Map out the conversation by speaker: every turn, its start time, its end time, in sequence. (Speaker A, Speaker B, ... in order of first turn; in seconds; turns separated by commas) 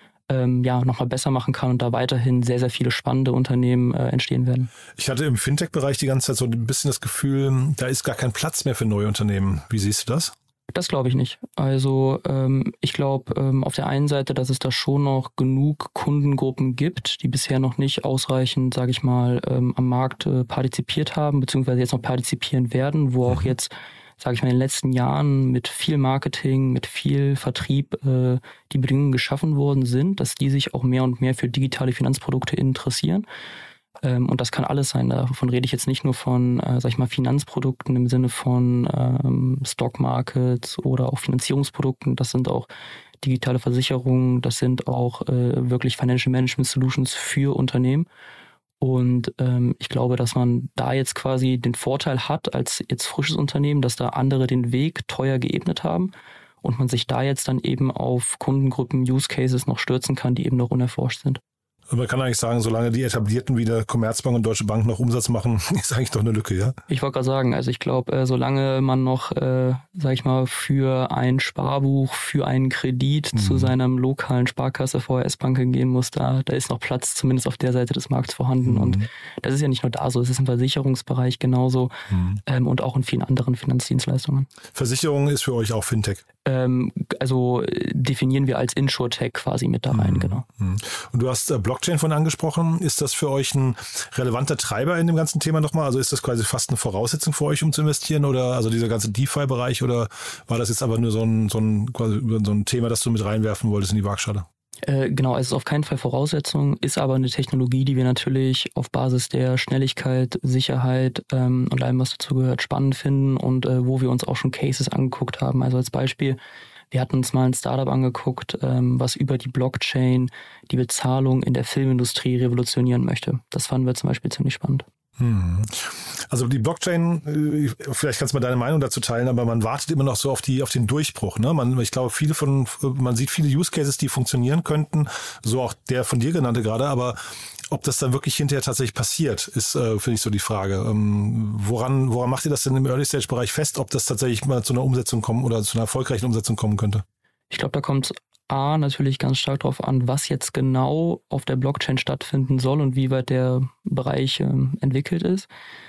Speaker A: 0.3-4.7, Speaker B: 5.0-10.3, Speaker A: 10.7-33.2, Speaker A: 34.0-42.7, Speaker A: 43.2-48.1, Speaker A: 48.8-61.4, Speaker B: 61.9-66.8, Speaker A: 66.9-81.9, Speaker B: 73.3-73.7, Speaker B: 78.6-79.1, Speaker B: 82.1-82.4, Speaker A: 82.5-84.5, Speaker B: 84.7-86.2, Speaker A: 86.4-90.4, Speaker B: 89.9-104.5, Speaker A: 104.8-116.4, Speaker A: 116.9-124.8, Speaker B: 125.2-137.2, Speaker B: 137.7-147.0, Speaker A: 147.5-155.5